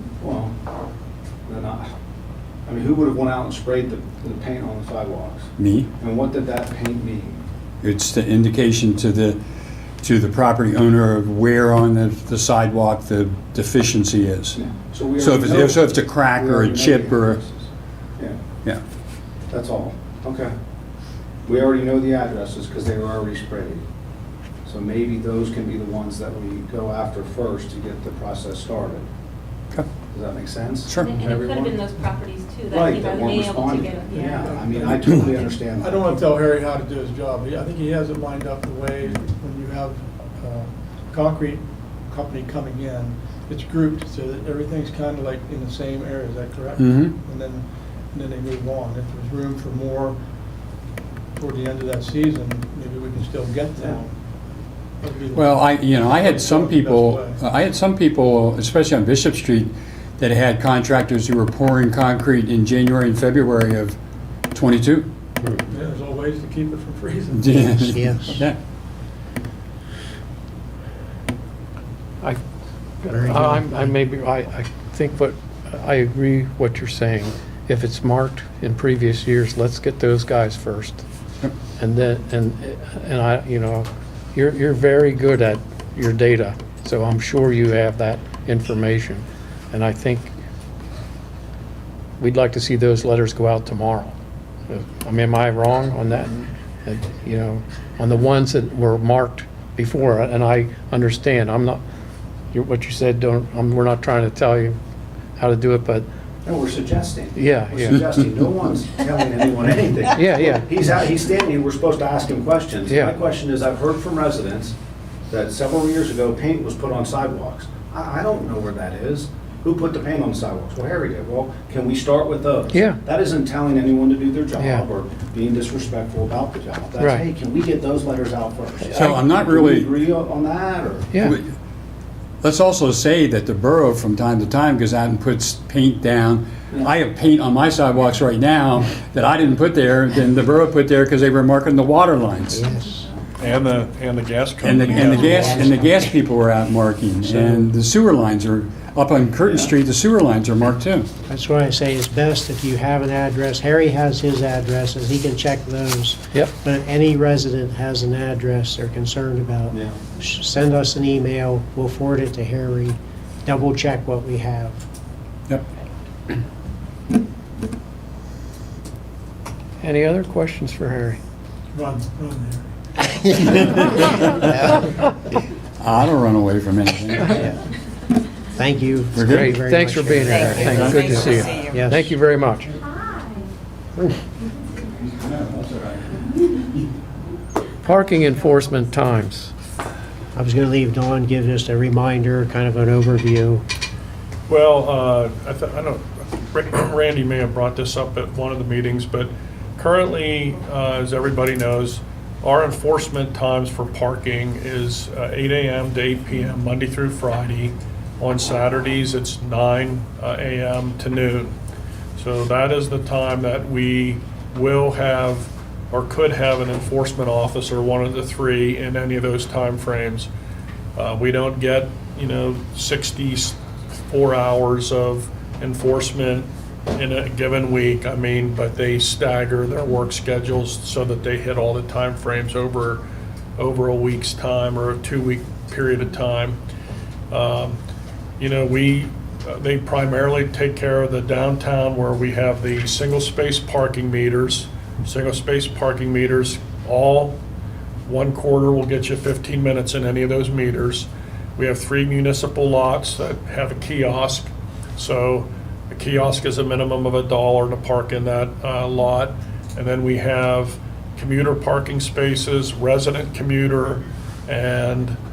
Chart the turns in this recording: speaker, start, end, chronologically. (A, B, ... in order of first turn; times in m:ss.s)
0:00.2-0:00.5 A
0:01.5-0:01.9 A
0:02.7-0:07.4 A
0:05.6-0:05.9 B
0:07.8-0:09.4 B
0:10.0-0:14.6 B
0:14.6-0:18.4 A
0:15.2-0:17.4 B
0:19.5-0:20.5 A
0:21.4-0:23.8 A
0:24.6-0:29.1 A
0:30.1-0:31.8 A
0:30.9-0:31.3 B
0:31.0-0:34.2 C
0:32.7-0:36.0 A
0:34.1-0:35.2 D
0:35.1-0:35.5 C
0:35.7-0:50.2 D
0:46.8-0:47.2 B
0:51.4-0:54.2 D
0:55.0-0:57.4 D
0:55.4-1:04.0 B
1:04.5-1:05.1 B
1:05.7-1:07.9 D
1:07.4-1:08.6 B
1:07.9-1:08.4 E
1:13.0-1:21.0 F
1:13.1-1:13.9 E
1:21.8-1:30.3 F
1:32.2-1:34.2 F
1:34.7-1:41.8 F
1:42.5-1:44.8 F
1:45.4-1:46.1 F
1:46.4-1:54.8 A
1:47.4-1:48.1 F
1:50.1-1:50.7 F
1:55.3-2:11.1 A
2:02.7-2:03.0 F
2:04.6-2:04.8 F
2:08.9-2:09.2 F
2:08.9-2:09.9 B
2:12.4-2:22.6 B
2:22.5-2:23.0 E
2:23.4-2:25.8 G
2:24.6-2:31.1 B
2:27.3-2:27.6 F
2:29.4-2:29.7 A
2:31.3-2:44.8 E
2:39.7-2:40.0 A
2:49.8-2:51.2 F
2:51.7-2:52.7 D
2:53.2-2:53.6 E
2:55.8-2:57.5 B
2:58.5-3:02.1 E
2:59.1-2:59.6 B
2:59.2-3:02.8 F
3:00.6-3:01.2 B
3:02.8-3:03.5 C
3:05.2-3:06.2 B
3:07.8-3:09.5 F
3:10.3-3:13.6 E
3:14.5-3:31.5 G
3:32.2-3:40.3 G
3:41.0-3:53.0 G
3:53.6-3:56.6 G
3:57.3-3:57.8 G
3:58.4-4:07.4 G
4:08.1-4:25.2 G